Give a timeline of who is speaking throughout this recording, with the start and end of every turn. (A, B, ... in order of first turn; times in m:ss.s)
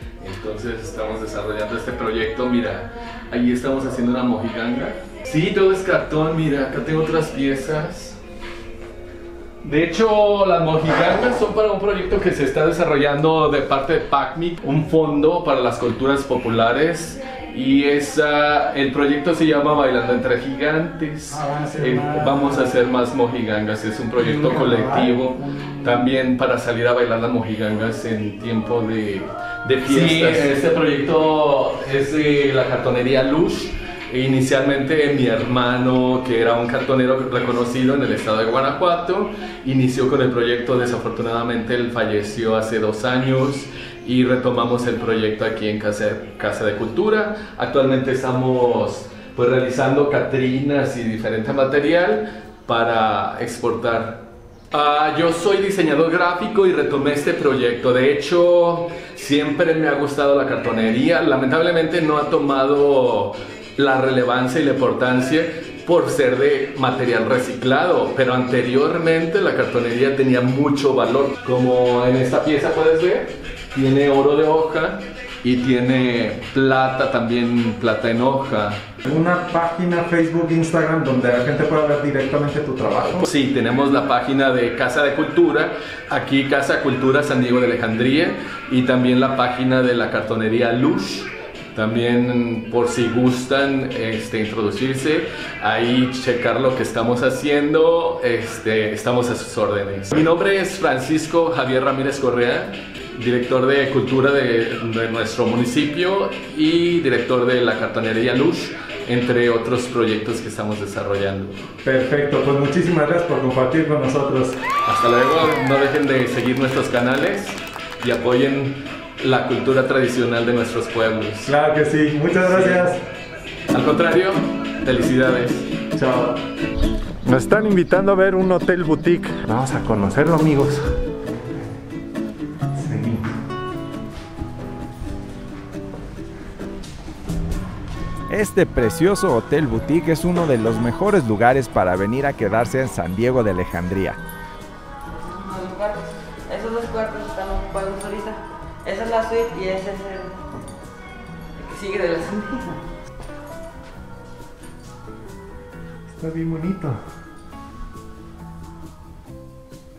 0:00.2-0:08.2 A
0:09.6-1:18.8 A
0:21.4-0:22.5 B
0:24.5-0:25.1 B
1:19.0-1:23.2 B
1:23.2-1:51.7 A
1:51.8-1:54.6 B
1:54.8-2:01.5 A
2:01.4-2:03.0 B
2:02.4-2:02.9 A
2:03.7-2:05.8 A
2:05.9-2:06.4 B
2:07.2-2:10.9 B
2:12.8-2:13.2 B
2:18.3-2:24.2 C
2:25.1-2:30.4 D
2:31.6-2:32.8 D
2:36.1-2:37.0 B